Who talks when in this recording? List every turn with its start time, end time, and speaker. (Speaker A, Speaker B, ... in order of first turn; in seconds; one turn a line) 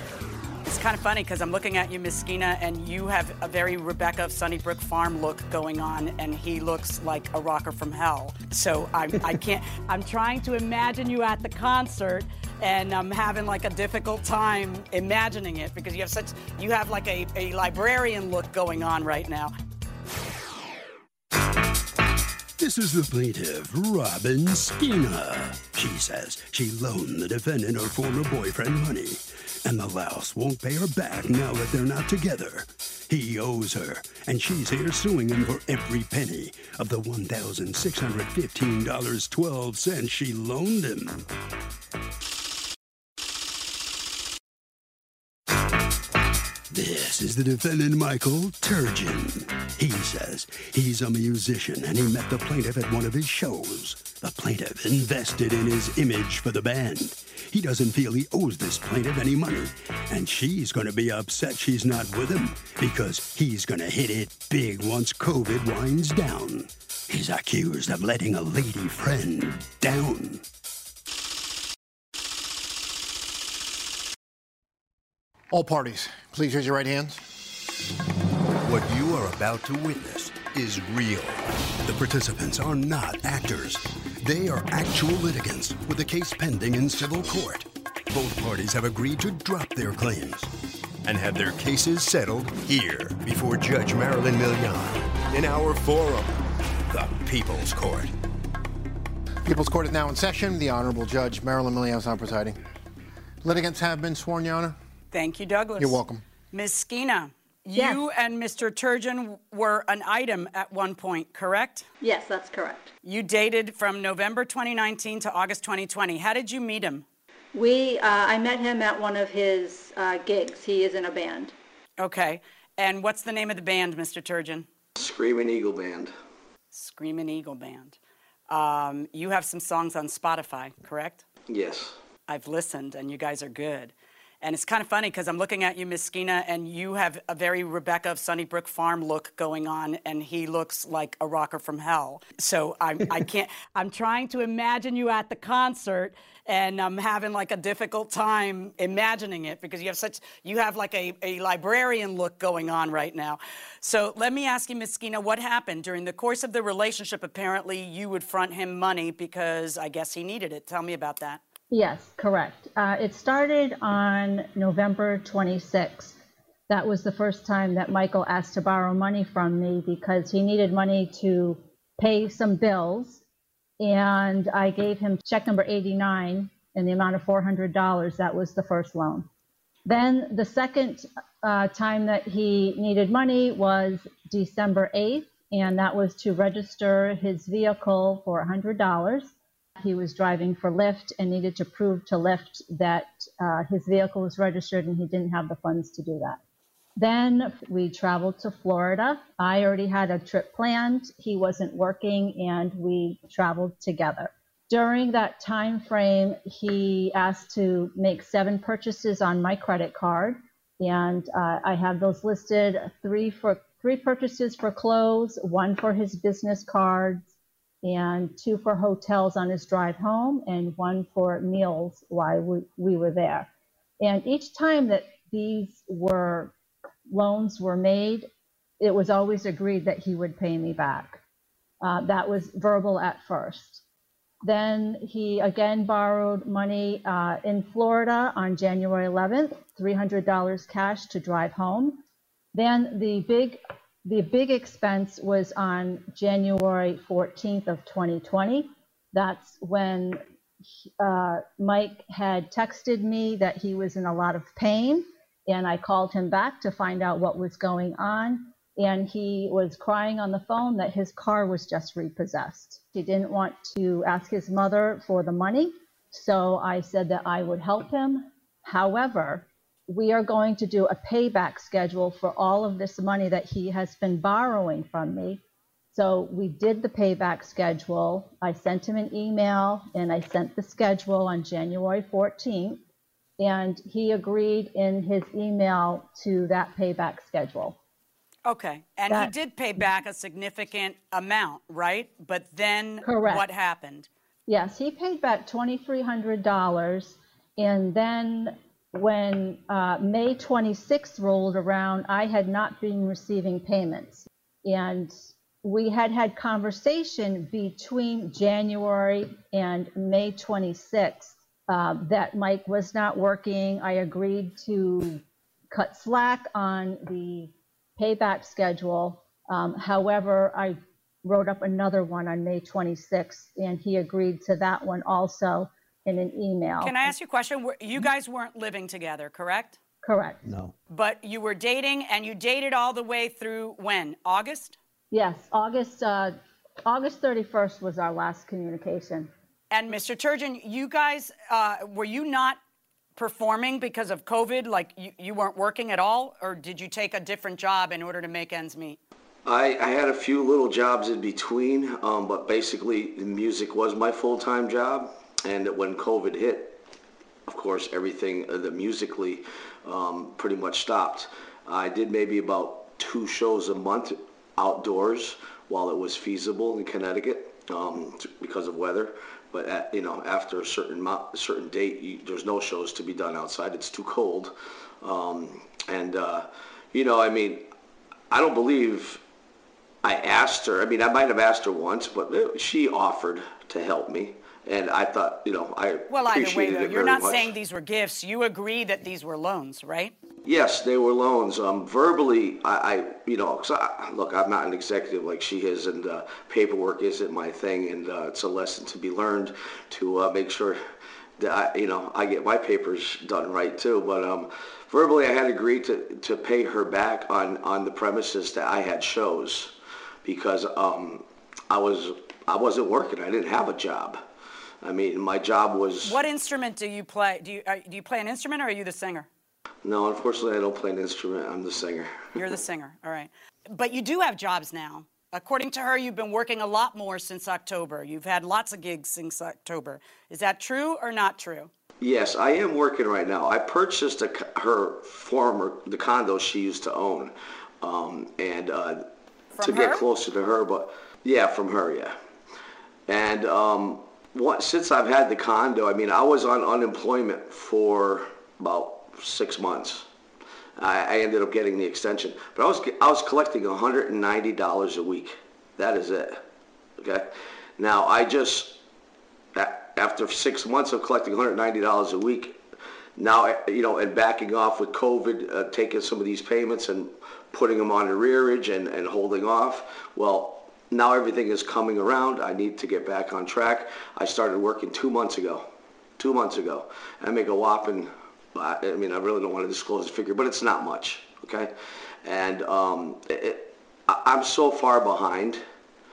Speaker A: 0.6-19.5
Speaker B: 22.6-41.3
Speaker B: 46.7-70.4
Speaker C: 75.5-77.2
Speaker B: 78.6-90.5
Speaker B: 91.0-96.4
Speaker B: 96.9-98.1
Speaker C: 99.4-102.6
Speaker C: 103.4-104.8
Speaker A: 105.1-111.9
Speaker C: 105.8-106.2
Speaker D: 107.7-108.0
Speaker E: 112.0-112.9
Speaker A: 113.0-117.0
Speaker E: 117.5-121.5
Speaker A: 122.0-124.7
Speaker F: 125.0-126.1
Speaker A: 126.7-128.0
Speaker A: 128.5-131.2
Speaker F: 131.5-131.9
Speaker A: 132.3-161.4
Speaker D: 161.7-166.2
Speaker D: 166.7-173.2
Speaker D: 173.8-179.3
Speaker D: 179.8-196.4
Speaker D: 197.0-217.3
Speaker D: 217.8-223.5
Speaker D: 224.0-226.5
Speaker D: 227.1-228.3
Speaker D: 228.8-231.2
Speaker D: 231.8-233.8
Speaker D: 234.4-242.0
Speaker D: 242.5-250.2
Speaker D: 251.0-275.4
Speaker D: 275.9-282.8
Speaker D: 283.4-287.8
Speaker A: 288.4-294.1
Speaker D: 293.0-293.4
Speaker D: 294.5-327.1
Speaker A: 326.8-329.8
Speaker D: 330.0-330.5
Speaker A: 330.9-334.8
Speaker D: 335.1-336.3
Speaker D: 336.9-339.3
Speaker A: 339.7-342.6
Speaker A: 343.1-349.0
Speaker F: 349.4-356.8
Speaker F: 357.5-377.7
Speaker F: 378.3-379.2
Speaker F: 380.0-387.5
Speaker A: 386.1-390.1
Speaker F: 390.4-400.8
Speaker F: 401.4-409.7
Speaker F: 410.2-414.2
Speaker F: 414.8-416.2
Speaker A: 416.0-419.3
Speaker F: 419.8-422.3
Speaker A: 422.3-431.7
Speaker F: 432.0-439.1
Speaker A: 439.5-440.0
Speaker F: 439.6-442.1
Speaker F: 443.1-450.1
Speaker F: 450.8-456.4
Speaker F: 457.0-458.8
Speaker F: 459.5-462.6
Speaker F: 463.1-475.7
Speaker F: 476.2-481.7
Speaker F: 482.2-485.6